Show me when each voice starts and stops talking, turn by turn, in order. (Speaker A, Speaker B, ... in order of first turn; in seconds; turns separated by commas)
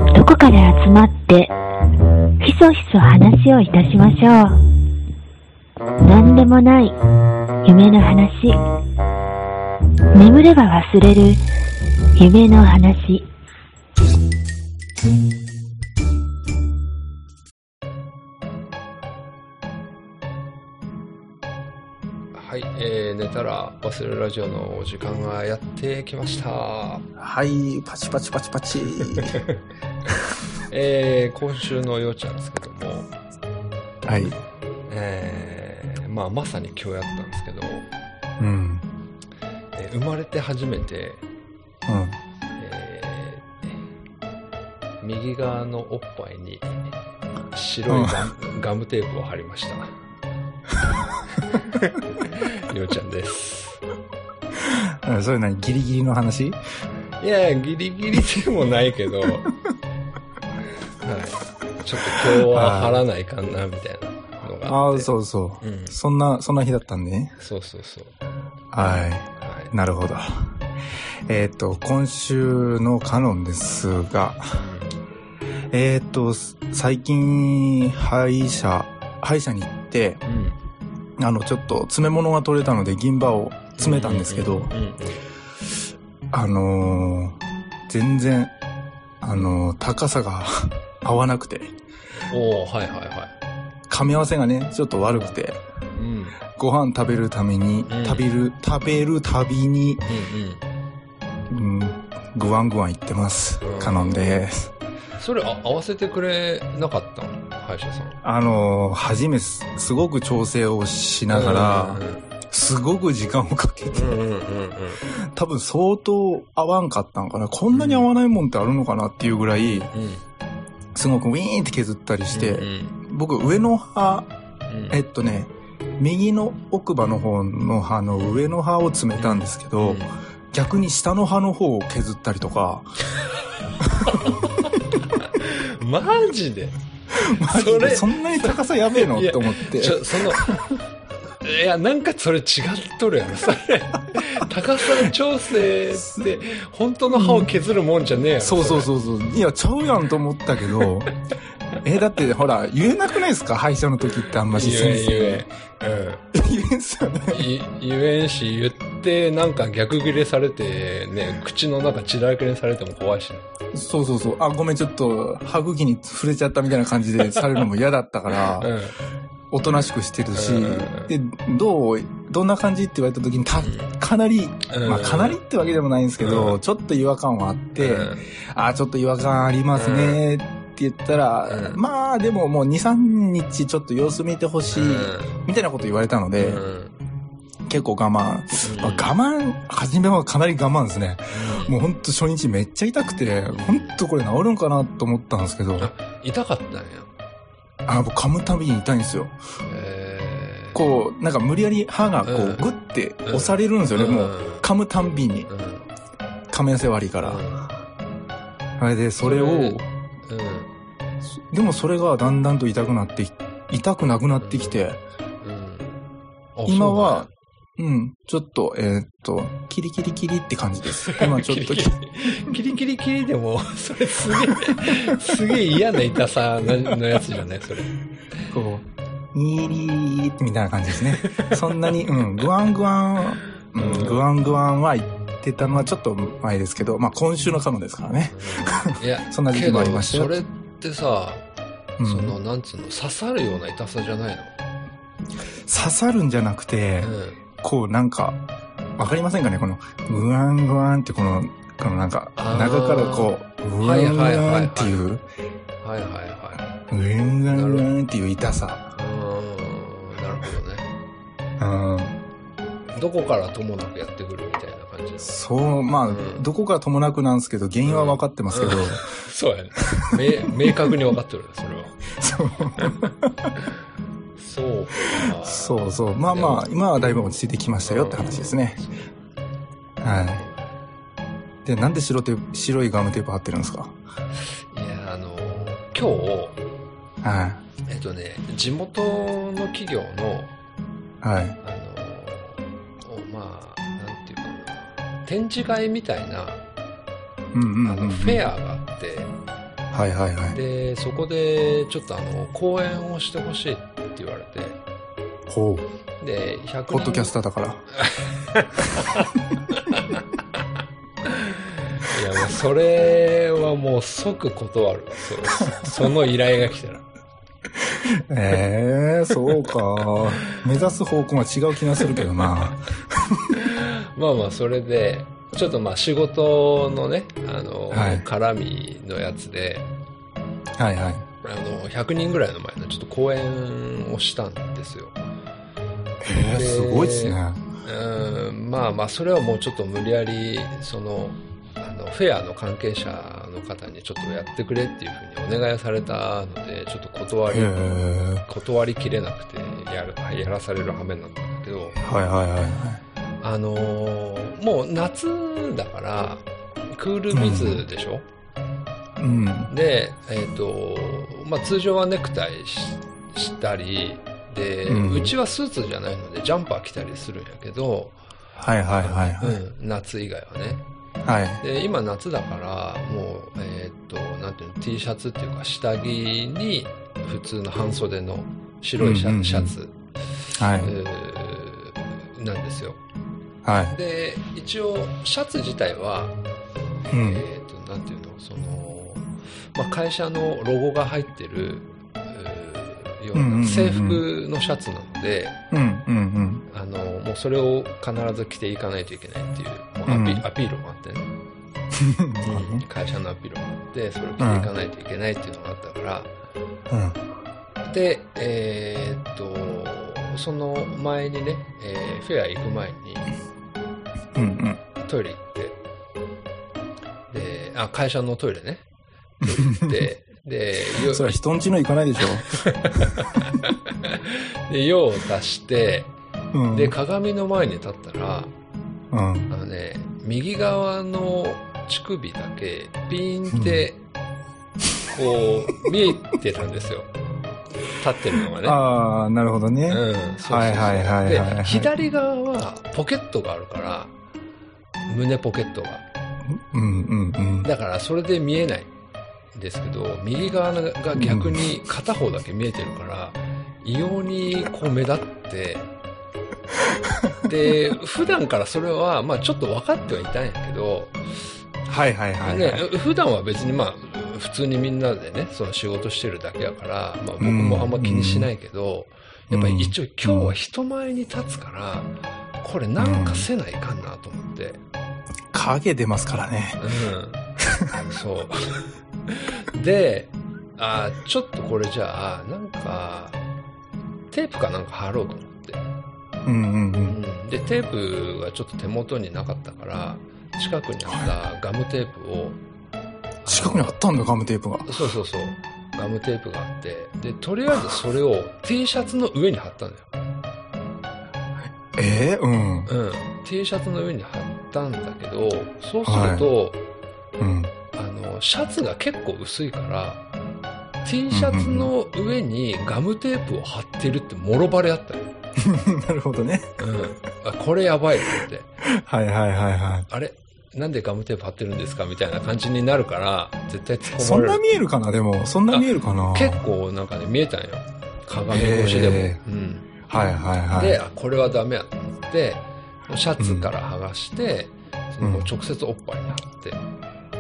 Speaker A: 0.1-1.6, Speaker A: 2.4-4.6, Speaker A: 6.0-7.0, Speaker A: 7.6-8.6, Speaker A: 10.1-11.4, Speaker A: 12.2-13.3, Speaker B: 22.3-27.1, Speaker C: 27.2-29.4, Speaker B: 29.3-29.6, Speaker B: 30.7-33.1, Speaker C: 34.0-34.4, Speaker B: 34.9-37.9, Speaker C: 38.4-38.9, Speaker B: 39.7-41.2, Speaker C: 41.9-42.2, Speaker B: 42.6-43.8, Speaker B: 45.0-46.9, Speaker B: 47.5-49.9, Speaker C: 47.9-48.2, Speaker B: 51.7-53.8, Speaker C: 54.5-56.6, Speaker B: 57.2-59.5, Speaker B: 61.0-66.0, Speaker C: 62.2-63.0, Speaker C: 64.6-67.4, Speaker B: 67.4-68.2, Speaker C: 68.7-70.6, Speaker B: 69.4-69.7, Speaker C: 71.3-74.6, Speaker B: 74.5-75.0, Speaker C: 75.7-80.2, Speaker B: 80.2-80.6, Speaker C: 81.2-84.7, Speaker B: 83.8-85.3, Speaker C: 86.3-88.5, Speaker C: 89.2-91.7, Speaker B: 92.2-93.3, Speaker C: 93.9-95.6, Speaker B: 95.1-95.4, Speaker B: 95.9-96.4, Speaker C: 96.5-100.0, Speaker B: 97.9-98.3, Speaker B: 100.1-100.6, Speaker C: 101.5-104.7, Speaker B: 103.6-104.4, Speaker B: 105.2-108.2, Speaker C: 108.2-114.2, Speaker B: 111.3-112.3, Speaker B: 113.9-115.1, Speaker C: 115.0-119.9, Speaker B: 117.7-118.1, Speaker B: 119.6-120.2, Speaker C: 121.0-124.3, Speaker B: 122.3-123.0, Speaker B: 124.7-125.0, Speaker C: 124.9-132.9, Speaker B: 128.1-128.5, Speaker B: 129.2-130.2, Speaker C: 133.8-134.3, Speaker B: 134.0-136.8, Speaker C: 137.1-140.6, Speaker B: 137.3-148.9, Speaker C: 147.1-147.5, Speaker C: 148.4-151.1, Speaker C: 151.8-155.5, Speaker B: 154.5-156.2, Speaker C: 156.3-157.5, Speaker B: 157.3-163.4, Speaker C: 163.7-168.7, Speaker B: 168.3-169.0, Speaker C: 169.5-186.6, Speaker B: 170.3-171.1, Speaker B: 173.6-173.9, Speaker B: 174.7-175.4, Speaker B: 176.2-176.6, Speaker B: 177.8-178.3, Speaker B: 179.7-180.2, Speaker B: 181.5-181.8, Speaker B: 184.7-185.3, Speaker B: 186.4-187.0, Speaker C: 187.7-195.9, Speaker B: 188.6-189.1, Speaker B: 191.3-191.8, Speaker B: 193.5-194.0, Speaker B: 195.8-197.1, Speaker C: 197.9-199.4, Speaker B: 199.7-200.8, Speaker C: 200.7-205.5, Speaker B: 202.2-202.7, Speaker B: 203.2-204.7, Speaker B: 205.5-205.9, Speaker C: 206.5-207.4, Speaker B: 207.2-207.7, Speaker C: 208.8-209.9, Speaker B: 209.2-210.7, Speaker C: 211.4-215.0, Speaker B: 214.4-214.9, Speaker B: 215.4-216.0, Speaker B: 216.6-217.3, Speaker C: 216.7-222.5, Speaker B: 221.1-227.9, Speaker C: 224.5-225.1, Speaker C: 228.5-240.4, Speaker B: 231.1-231.9, Speaker B: 233.7-234.3, Speaker B: 238.3-241.4, Speaker C: 242.0-242.3, Speaker B: 242.0-244.5, Speaker C: 245.7-248.4, Speaker B: 247.0-247.4, Speaker C: 249.0-255.2, Speaker B: 252.4-255.0, Speaker B: 255.8-256.6, Speaker C: 256.9-258.9, Speaker B: 257.5-257.9, Speaker B: 258.9-260.9, Speaker C: 261.6-262.2, Speaker B: 262.9-265.4, Speaker C: 265.2-269.1, Speaker B: 266.1-266.5, Speaker B: 267.9-272.0, Speaker C: 270.1-270.9, Speaker C: 272.2-273.5, Speaker B: 272.8-273.1, Speaker B: 274.4-276.6, Speaker C: 275.4-278.8, Speaker B: 277.9-279.1, Speaker C: 280.0-280.4, Speaker B: 280.2-280.7, Speaker C: 281.6-284.0, Speaker B: 284.7-286.6, Speaker C: 287.2-287.6, Speaker B: 287.9-290.5, Speaker C: 291.2-291.6, Speaker B: 291.6-296.6, Speaker C: 297.5-298.5, Speaker B: 297.9-299.3, Speaker C: 299.9-300.6, Speaker B: 300.5-304.8, Speaker C: 305.5-305.9, Speaker B: 306.2-307.4, Speaker C: 306.9-307.9, Speaker B: 307.9-310.2, Speaker B: 311.2-317.1, Speaker C: 317.8-323.5, Speaker B: 319.5-320.6, Speaker B: 322.0-322.4, Speaker B: 323.5-329.9, Speaker C: 327.9-328.3, Speaker C: 330.8-331.2, Speaker B: 331.4-335.2, Speaker C: 336.2-337.6, Speaker B: 336.5-347.7, Speaker C: 347.5-348.4, Speaker B: 348.5-352.0, Speaker C: 352.0-353.0, Speaker B: 353.4-358.3, Speaker C: 357.3-357.9, Speaker C: 359.2-359.7, Speaker B: 359.7-368.2, Speaker C: 364.9-365.3, Speaker C: 368.6-369.6, Speaker B: 369.0-370.9, Speaker C: 371.2-371.6, Speaker B: 371.6-379.9, Speaker C: 379.0-379.8, Speaker C: 380.6-380.9, Speaker B: 380.8-383.0, Speaker C: 383.6-384.0, Speaker B: 383.9-386.4, Speaker C: 387.1-387.4, Speaker B: 387.1-395.6, Speaker C: 393.3-394.2, Speaker C: 395.7-396.6, Speaker B: 396.7-401.3, Speaker C: 400.1-400.4, Speaker C: 401.9-402.8, Speaker B: 402.4-406.3, Speaker C: 404.4-404.7, Speaker C: 406.9-407.2, Speaker B: 407.9-413.3, Speaker C: 414.3-414.8, Speaker B: 415.0-415.8, Speaker B: 417.3-418.9, Speaker B: 419.4-421.4, Speaker C: 419.4-420.1, Speaker C: 421.0-422.6, Speaker B: 422.5-426.1, Speaker C: 423.2-423.4, Speaker C: 426.5-427.0, Speaker B: 426.7-428.5, Speaker C: 429.1-429.5, Speaker B: 429.5-434.0, Speaker C: 433.5-433.8, Speaker B: 435.1-437.1, Speaker B: 437.9-438.8, Speaker C: 438.6-441.9, Speaker B: 439.9-444.1, Speaker B: 445.1-446.1, Speaker C: 446.5-447.7, Speaker B: 447.6-448.9, Speaker B: 449.5-455.9, Speaker C: 451.2-451.6, Speaker B: 457.4-461.4, Speaker C: 461.9-462.8, Speaker B: 462.4-474.8, Speaker C: 467.4-468.5, Speaker C: 469.5-470.6, Speaker C: 473.0-473.5, Speaker C: 475.5-476.8, Speaker B: 476.8-477.4, Speaker C: 477.6-477.9, Speaker B: 478.1-483.4, Speaker B: 484.3-485.8, Speaker C: 486.4-487.2, Speaker B: 487.1-492.6, Speaker B: 493.4-494.0, Speaker C: 493.5-495.0, Speaker B: 494.9-500.1, Speaker C: 501.9-502.9, Speaker B: 502.9-506.8, Speaker C: 506.0-506.5, Speaker C: 507.4-507.7, Speaker B: 507.9-510.2, Speaker B: 511.0-515.3, Speaker C: 511.3-511.9, Speaker C: 515.6-516.7, Speaker B: 516.8-518.7, Speaker C: 518.8-520.1, Speaker B: 520.1-524.6, Speaker C: 524.2-526.6, Speaker B: 525.7-529.9, Speaker C: 528.5-529.4, Speaker C: 530.1-531.0, Speaker B: 530.7-536.8, Speaker C: 533.4-533.7, Speaker C: 535.2-535.5